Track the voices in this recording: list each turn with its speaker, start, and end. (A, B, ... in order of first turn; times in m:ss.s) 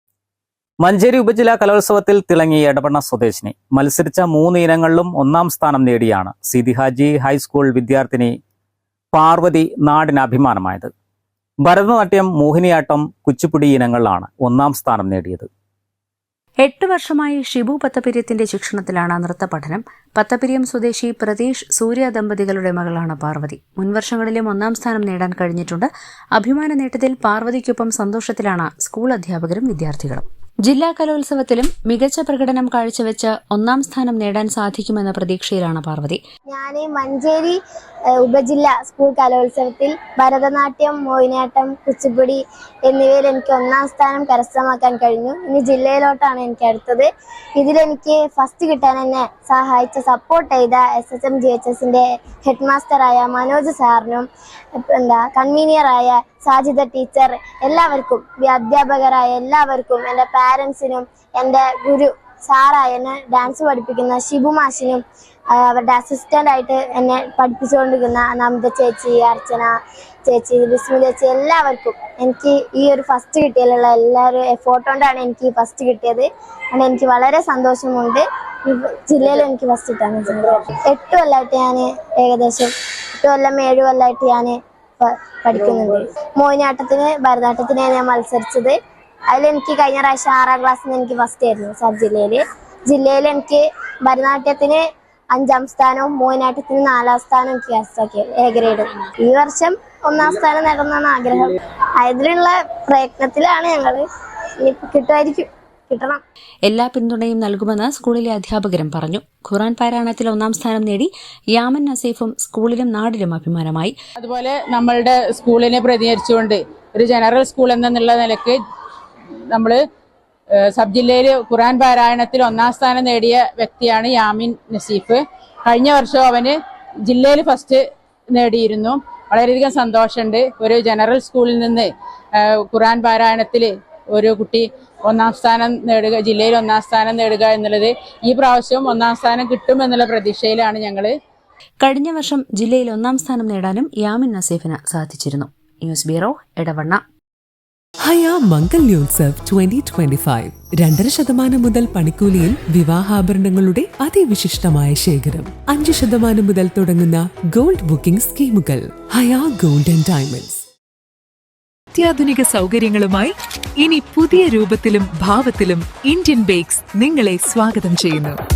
0:00.8-0:08.3 A
0:09.1-0:10.9 A
0:11.6-0:15.5 A
0:16.6-0:36.2 B
0:36.5-0:37.6 C
0:38.2-0:54.2 C
0:54.9-1:05.0 C
1:05.5-1:09.7 C
1:10.2-1:28.7 C
1:29.3-1:44.0 C
1:44.6-1:46.2 C
1:46.7-1:53.9 B
1:54.2-1:58.6 D
1:59.5-1:59.8 D
2:00.7-2:06.6 D
2:07.1-2:07.8 D
2:08.3-2:21.1 D
2:21.8-2:27.0 B
2:28.0-2:40.6 E
2:41.9-2:48.4 F